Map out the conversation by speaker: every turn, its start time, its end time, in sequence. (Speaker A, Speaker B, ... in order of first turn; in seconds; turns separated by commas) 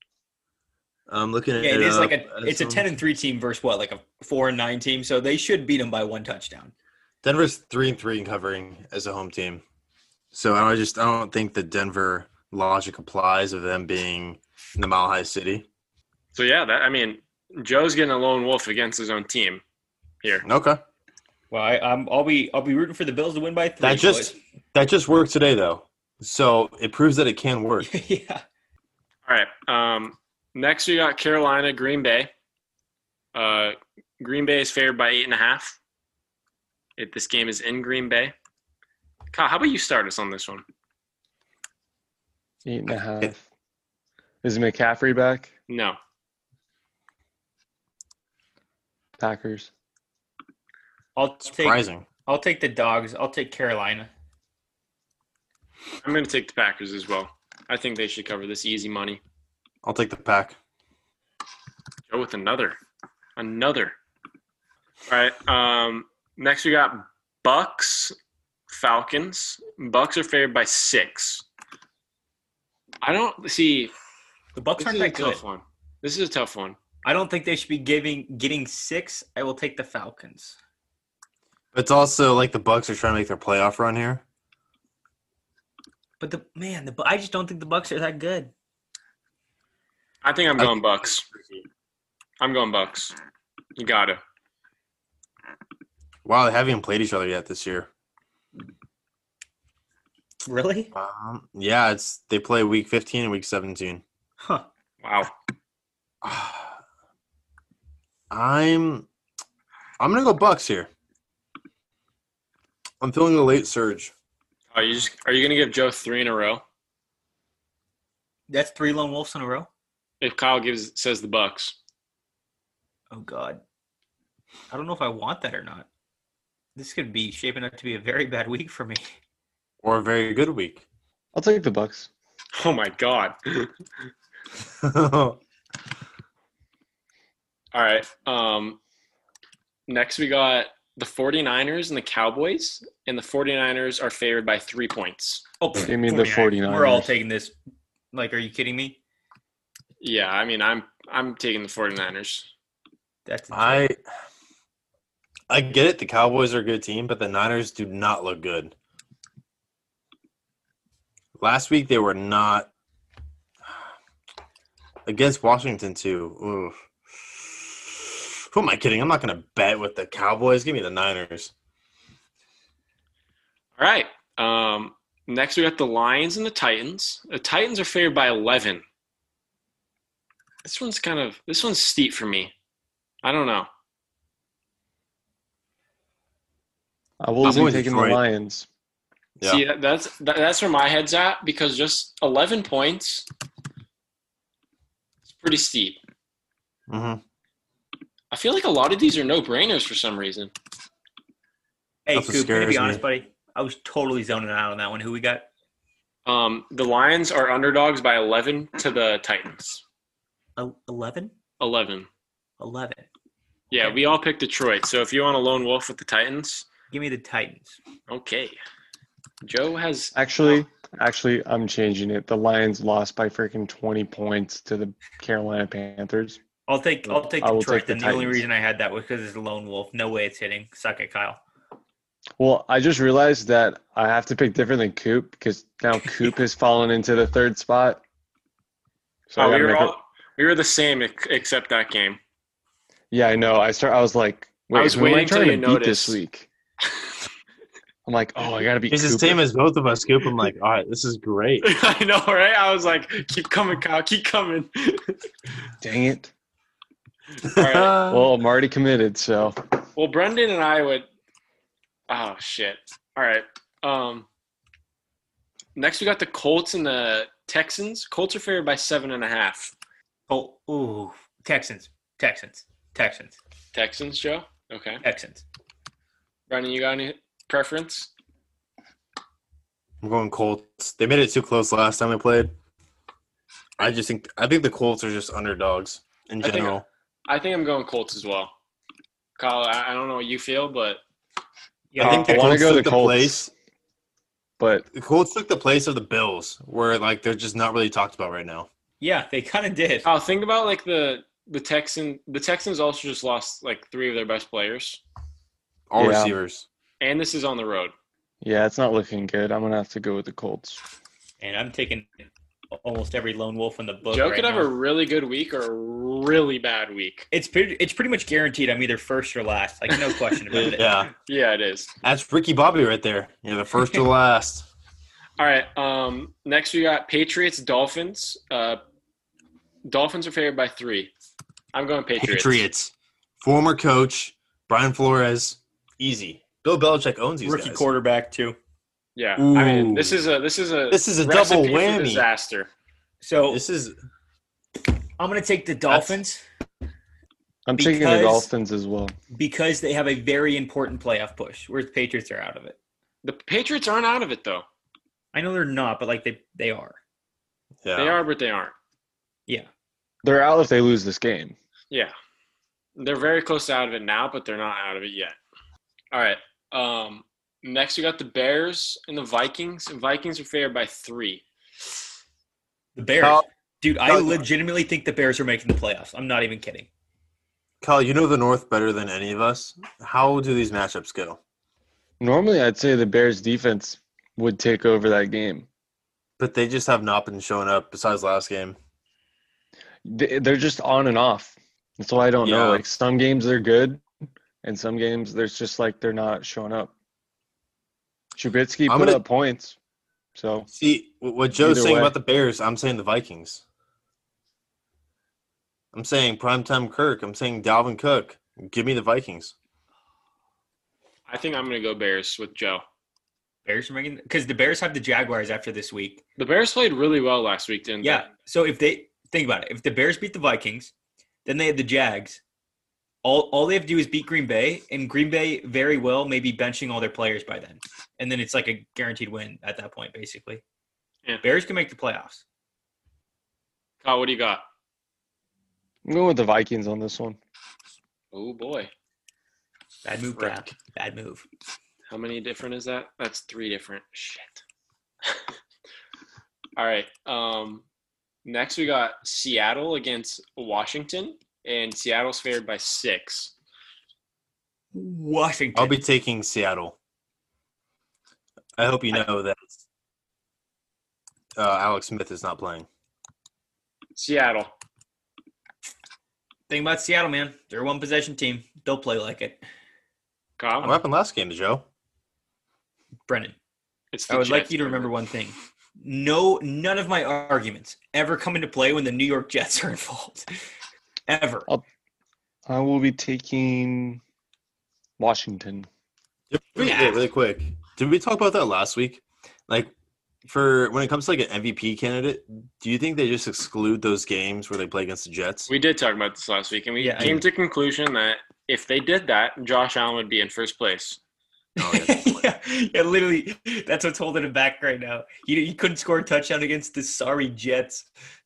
Speaker A: 1.1-2.9, Speaker B: 1.6-6.7, Speaker A: 7.2-9.6, Speaker A: 10.3-15.7, Speaker C: 16.3-19.6, Speaker A: 20.4-20.8, Speaker B: 21.5-24.3, Speaker A: 23.8-27.9, Speaker B: 27.8-28.4, Speaker C: 29.3-32.3, Speaker C: 33.3-35.8, Speaker C: 37.0-38.3, Speaker C: 39.3-40.6, Speaker D: 42.6-43.5, Speaker D: 44.4-45.5, Speaker C: 45.7-46.0, Speaker D: 49.2-49.7, Speaker B: 51.1-54.1, Speaker A: 51.6-52.0, Speaker C: 56.0-59.2, Speaker A: 59.8-60.6, Speaker C: 62.1-62.8, Speaker C: 63.4-64.0, Speaker C: 65.1-68.2, Speaker C: 68.7-71.5, Speaker C: 73.0-73.9, Speaker B: 74.5-75.4, Speaker C: 74.8-76.8, Speaker B: 77.0-80.6, Speaker A: 81.7-84.2, Speaker B: 86.2-88.5, Speaker C: 90.2-91.6, Speaker C: 92.4-93.1, Speaker C: 93.8-94.2, Speaker A: 96.2-97.9, Speaker B: 100.5-100.9, Speaker A: 100.9-104.0, Speaker C: 105.0-105.3, Speaker A: 106.2-106.8, Speaker A: 108.3-109.1, Speaker A: 110.0-110.9, Speaker A: 113.0-114.1, Speaker C: 114.7-116.6, Speaker B: 118.5-119.7, Speaker C: 120.2-121.8, Speaker B: 123.1-123.6, Speaker B: 124.7-125.9, Speaker B: 126.8-129.1, Speaker A: 129.8-130.8, Speaker D: 131.3-132.1, Speaker C: 132.6-133.7, Speaker A: 134.8-135.4, Speaker C: 137.7-138.8, Speaker C: 139.9-145.4, Speaker B: 145.6-147.5, Speaker D: 145.8-147.1, Speaker B: 148.1-149.0, Speaker C: 150.0-152.5, Speaker B: 153.3-153.9, Speaker A: 153.5-154.0, Speaker A: 155.5-158.7, Speaker A: 161.4-162.7, Speaker A: 165.1-166.8, Speaker A: 167.4-171.5, Speaker C: 173.8-178.8, Speaker C: 180.6-182.5, Speaker C: 183.2-183.7, Speaker D: 187.2-188.7, Speaker A: 187.4-188.2, Speaker C: 189.4-193.3, Speaker C: 195.3-196.0, Speaker A: 196.9-197.2, Speaker C: 198.3-200.5, Speaker B: 202.1-205.5, Speaker A: 202.2-203.0, Speaker C: 206.3-209.8, Speaker B: 210.6-211.3, Speaker C: 211.6-212.1, Speaker B: 212.6-213.1, Speaker C: 213.7-216.7, Speaker B: 216.9-217.8, Speaker C: 218.1-218.6, Speaker C: 219.4-220.2, Speaker D: 220.2-226.4, Speaker B: 226.7-231.4, Speaker D: 227.1-228.4, Speaker D: 232.4-238.0, Speaker D: 239.3-239.9, Speaker C: 239.4-242.2, Speaker D: 243.1-246.5, Speaker C: 244.7-246.2, Speaker D: 248.1-249.4, Speaker A: 248.9-251.7, Speaker C: 251.6-255.2, Speaker D: 255.8-256.3, Speaker C: 257.4-258.0, Speaker A: 257.5-258.3, Speaker D: 258.1-259.6, Speaker C: 260.0-261.1, Speaker C: 262.1-264.3, Speaker C: 265.8-269.7, Speaker B: 270.3-273.4, Speaker C: 273.7-275.0, Speaker B: 275.0-275.4, Speaker C: 276.5-278.1, Speaker A: 280.0-282.5, Speaker A: 283.8-286.9, Speaker C: 286.4-288.5, Speaker C: 289.4-291.0, Speaker B: 291.9-292.5, Speaker A: 292.0-293.5, Speaker D: 292.0-293.5, Speaker D: 294.6-294.9, Speaker A: 294.9-298.7, Speaker B: 299.0-300.1, Speaker C: 300.1-305.0, Speaker A: 305.9-306.7, Speaker D: 306.0-306.4, Speaker C: 307.0-307.9, Speaker D: 308.4-310.8, Speaker B: 311.4-312.1, Speaker B: 312.7-314.7, Speaker C: 314.1-317.3, Speaker B: 317.3-321.1, Speaker A: 320.5-321.1, Speaker C: 321.3-321.9, Speaker A: 322.0-324.7, Speaker C: 325.4-328.8, Speaker C: 329.9-331.1, Speaker C: 331.7-332.6, Speaker A: 332.2-337.9, Speaker B: 337.4-338.6, Speaker C: 339.2-342.7, Speaker A: 339.4-340.2, Speaker A: 340.9-342.2, Speaker B: 343.2-343.6, Speaker A: 343.5-343.9, Speaker B: 345.2-346.4, Speaker D: 347.7-349.1, Speaker B: 347.8-348.5, Speaker B: 349.3-352.8, Speaker C: 353.2-354.6, Speaker B: 355.3-357.0, Speaker A: 357.8-358.2, Speaker C: 358.0-358.7, Speaker D: 360.2-361.6, Speaker C: 363.0-365.4, Speaker C: 366.1-371.4, Speaker B: 372.9-376.9, Speaker A: 373.2-373.4, Speaker A: 374.1-374.4, Speaker A: 377.8-381.4, Speaker D: 382.2-385.7, Speaker A: 386.4-388.8, Speaker D: 390.1-394.0, Speaker A: 392.4-392.8, Speaker D: 394.6-396.9, Speaker D: 398.4-399.8, Speaker A: 398.9-399.2, Speaker D: 400.4-400.7, Speaker A: 400.7-403.6, Speaker D: 401.6-402.1, Speaker A: 405.9-409.5, Speaker C: 411.3-412.8, Speaker B: 413.6-416.2, Speaker C: 416.4-418.3, Speaker B: 418.0-420.9, Speaker B: 421.4-422.4, Speaker B: 423.2-430.6, Speaker B: 431.4-432.4, Speaker C: 434.0-434.6, Speaker D: 436.1-437.4, Speaker C: 438.3-438.9, Speaker B: 440.1-441.4, Speaker C: 440.4-440.6, Speaker C: 442.1-444.6, Speaker C: 446.8-447.8, Speaker C: 448.4-453.5, Speaker B: 454.9-455.9, Speaker A: 455.8-456.9, Speaker A: 458.8-459.8, Speaker A: 461.6-462.9, Speaker C: 464.2-464.7, Speaker B: 466.7-469.6, Speaker C: 470.6-471.0, Speaker A: 470.8-471.9, Speaker B: 473.3-473.6, Speaker C: 474.1-475.1, Speaker B: 474.3-480.5, Speaker B: 481.3-481.7, Speaker D: 482.7-484.2, Speaker D: 485.2-485.9, Speaker A: 486.5-489.9, Speaker B: 486.8-487.2, Speaker A: 490.5-495.7, Speaker C: 495.7-501.2, Speaker B: 497.0-497.4, Speaker A: 497.2-497.4, Speaker B: 501.8-508.1, Speaker A: 501.8-502.4